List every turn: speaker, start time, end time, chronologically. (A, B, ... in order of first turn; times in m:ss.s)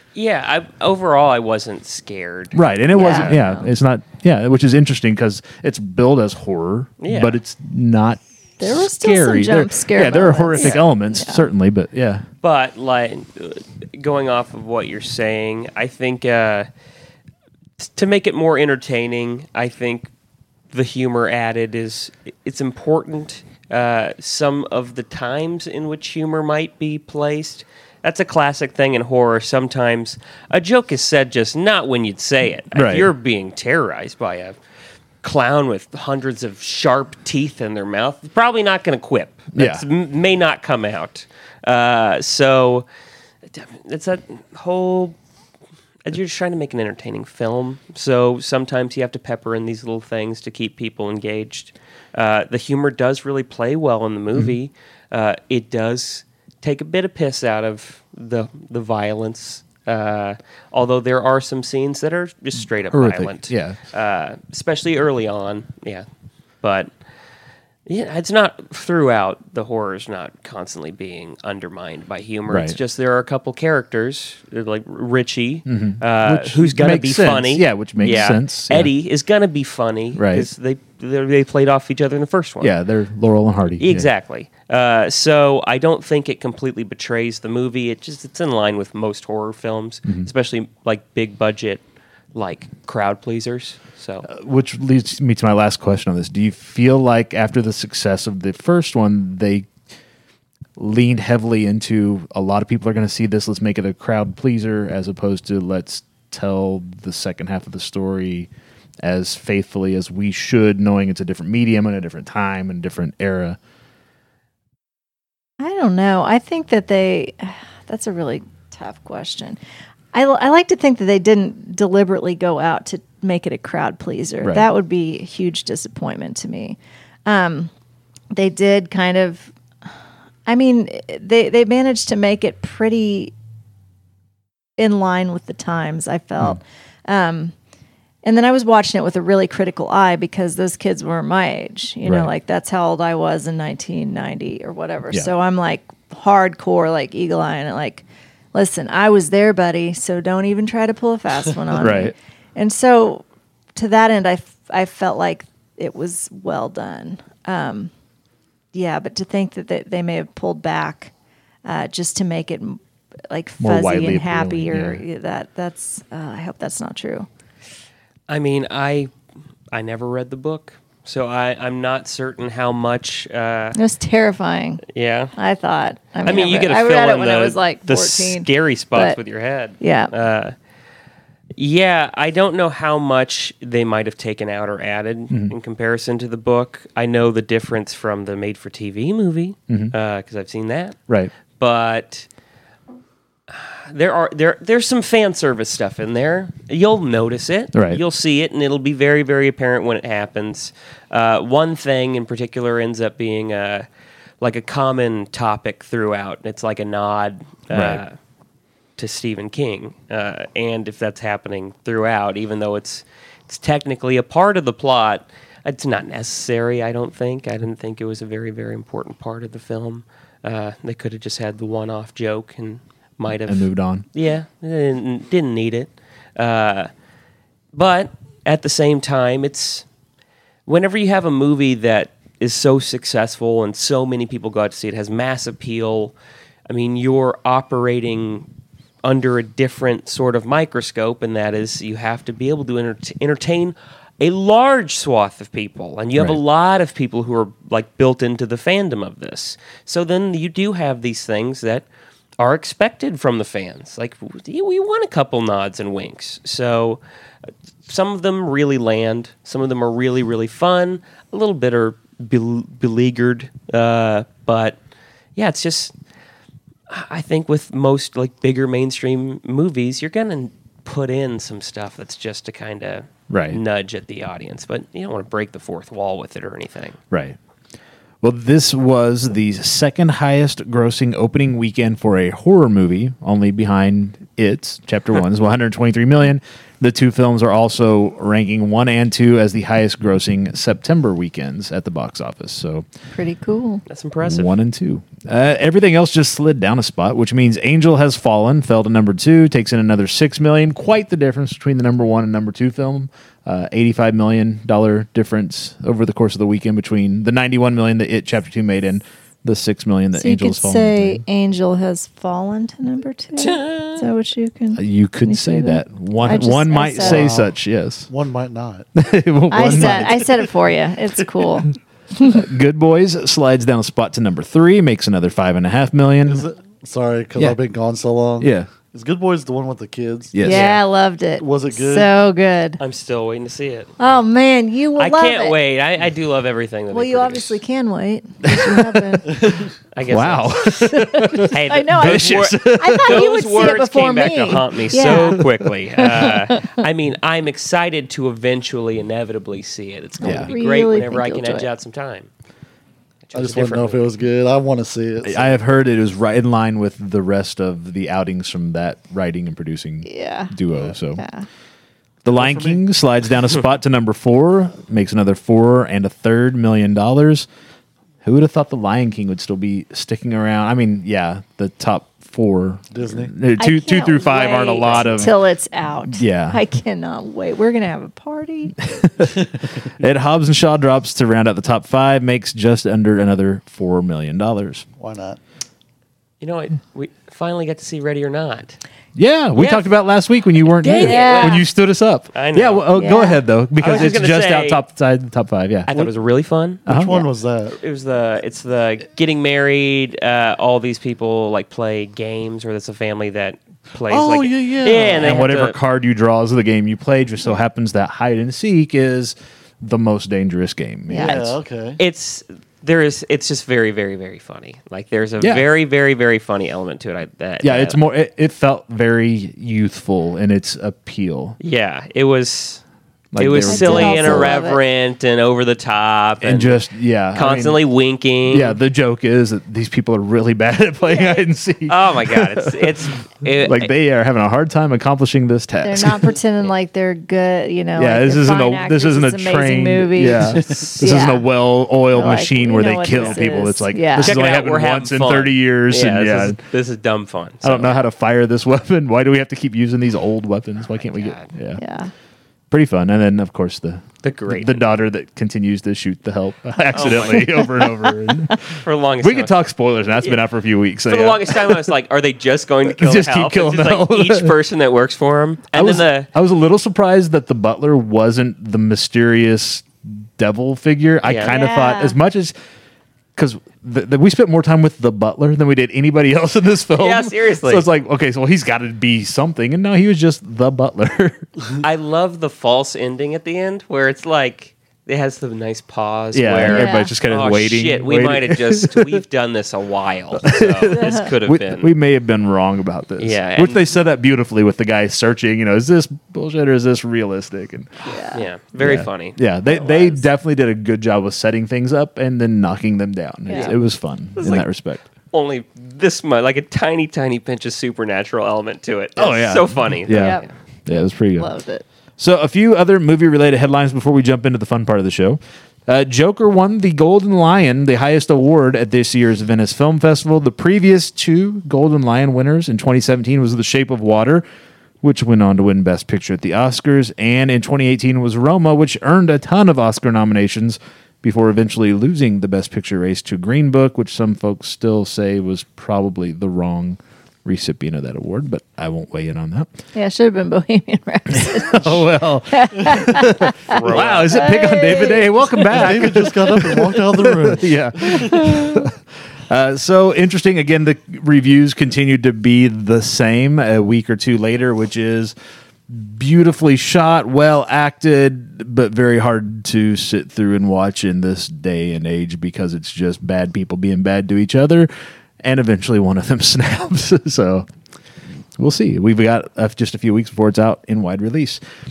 0:00.1-0:03.3 A
0:02.5-0:12.2 B
0:02.9-0:03.7 C
0:07.0-0:07.4 A
0:08.6-0:11.4 C
0:10.6-0:10.8 A
0:12.4-0:16.7 A
0:17.8-0:20.1 A
0:20.7-0:34.6 A
0:32.7-0:33.1 B
0:35.2-0:42.8 A
0:39.5-0:39.8 B
0:43.5-0:45.2 A
0:46.0-1:06.0 A
1:02.9-1:03.8 B
1:06.6-1:06.9 A
1:07.8-1:22.7 A
1:12.5-1:12.8 B
1:15.7-1:18.9 B
1:18.0-1:18.3 C
1:20.1-1:20.5 B
1:22.6-1:24.1 B
1:23.8-1:31.8 A
1:32.3-1:34.3 A
1:34.3-1:39.7 B
1:40.8-1:48.5 B
1:49.0-1:53.6 B
1:55.6-1:59.6 C
2:00.1-2:07.7 C
2:08.3-2:09.5 C
2:10.4-2:13.3 C
2:14.8-2:17.5 C
2:18.2-2:33.2 C
2:22.0-2:22.3 B
2:31.7-2:32.1 B
2:33.8-2:37.9 C
2:38.7-2:41.1 C
2:41.6-2:47.3 C
2:43.6-2:45.0 B
2:48.3-2:49.1 A
2:49.7-2:53.8 A
2:53.7-2:54.8 C
2:54.9-2:55.3 A
2:55.4-2:59.2 C
2:56.2-3:00.5 A
2:59.8-3:00.1 C
3:01.6-3:11.0 A
3:09.7-3:09.9 B
3:11.6-3:12.3 A
3:13.5-3:23.8 A
3:17.7-3:18.0 B
3:24.4-3:28.1 A
3:27.7-3:28.0 B
3:29.0-3:46.9 A
3:43.4-3:44.0 B
3:47.7-3:49.8 A
3:50.6-3:56.1 A
3:56.7-3:58.5 A
3:59.0-4:11.8 A
4:12.4-4:17.0 A
4:17.8-4:24.8 A
4:25.4-4:25.9 A
4:26.9-4:37.0 A
4:33.3-4:33.6 B
4:37.1-4:37.4 B
4:38.2-4:52.8 B
4:53.1-4:53.8 C
4:53.9-4:54.5 A
4:54.2-5:11.2 B
5:10.1-5:17.3 C
5:13.4-5:14.0 A
5:14.7-5:18.1 B
5:17.0-5:17.5 D
5:18.1-5:18.9 D
5:19.0-5:20.3 B
5:19.5-5:22.4 C
5:19.6-5:20.5 D
5:22.2-5:26.4 B
5:26.2-5:30.4 D
5:28.4-5:28.7 B
5:30.3-5:30.7 B
5:30.4-5:32.8 C
5:30.4-5:30.8 A
5:31.4-5:32.1 D
5:32.8-5:33.9 A
5:34.0-5:35.6 C
5:35.0-5:37.6 A
5:36.9-5:39.3 C
5:38.4-5:39.2 B
5:39.3-5:39.7 D
5:39.9-5:40.7 A
5:40.0-5:43.3 B
5:40.8-5:45.4 C
5:41.4-5:52.3 A
5:46.0-5:46.7 C
5:50.2-5:51.7 C
5:50.2-5:50.5 B
5:53.3-5:54.0 A
5:53.3-5:55.6 D
5:55.2-6:01.2 B
6:00.0-6:00.5 C
6:01.1-6:01.4 C
6:02.2-6:07.5 B
6:02.3-6:02.8 D
6:08.2-6:15.4 B
6:12.9-6:13.3 D
6:13.6-6:18.8 C
6:14.9-6:15.2 A
6:16.1-6:16.6 B
6:18.8-6:24.8 B
6:25.0-6:25.4 D
6:26.4-6:28.8 A
6:29.2-6:35.9 B
6:29.6-6:29.8 A
6:30.6-6:31.7 A
6:31.0-6:31.6 C
6:32.3-6:32.8 A
6:32.9-6:33.4 C
6:33.8-6:34.8 A
6:35.9-6:36.8 A
6:36.8-6:37.8 D
6:36.9-6:37.3 B
6:37.8-6:45.8 A
6:44.1-6:45.4 D
6:45.2-6:51.5 B
6:51.1-6:51.4 C
6:51.2-6:52.0 D
6:52.0-6:58.0 A
6:57.6-7:01.6 B
7:01.6-7:02.8 A
7:03.3-7:04.5 B
7:03.4-7:06.8 A
7:03.6-7:04.8 C
7:06.4-7:07.8 B
7:07.3-7:08.8 A
7:08.5-7:13.0 B
7:11.9-7:13.9 A
7:13.6-7:16.4 B
7:15.8-7:21.4 C
7:18.0-7:26.6 B
7:20.6-7:20.9 D
7:20.6-7:21.0 A
7:22.1-7:24.4 C
7:23.0-7:23.4 A
7:24.2-7:28.0 A
7:27.6-7:31.8 B
7:30.9-7:31.5 A
7:31.8-7:32.1 C
7:32.7-7:41.9 B
7:34.2-7:34.8 A
7:36.9-7:37.6 A
7:37.5-7:37.9 C
7:38.7-7:39.5 A
7:41.0-7:46.3 A
7:42.8-7:44.5 B
7:45.7-7:52.5 B
7:51.2-7:51.6 A
7:51.5-7:52.2 C
7:53.4-8:01.4 B
7:56.9-7:57.8 A
8:01.8-8:11.9 A
8:06.3-8:09.2 B
8:06.6-8:07.1 C
8:10.4-8:17.9 B
8:11.0-8:11.2 C
8:13.2-8:13.8 A
8:18.0-8:18.4 C
8:18.2-8:20.2 A
8:18.8-8:25.0 B
8:23.5-8:23.7 C
8:23.5-8:23.8 A
8:24.4-8:24.7 A
8:25.3-8:30.5 A
8:29.2-8:31.5 B
8:30.1-8:30.4 C
8:31.3-8:31.8 C
8:32.2-8:44.4 B
8:45.0-8:59.7 B
8:59.9-9:06.0 C
9:01.3-9:08.9 B
9:03.6-9:04.5 A
9:05.7-9:08.5 D
9:08.1-9:08.8 C
9:09.5-9:15.3 B
9:15.9-9:24.9 B
9:25.4-9:27.7 B
9:28.6-9:31.6 B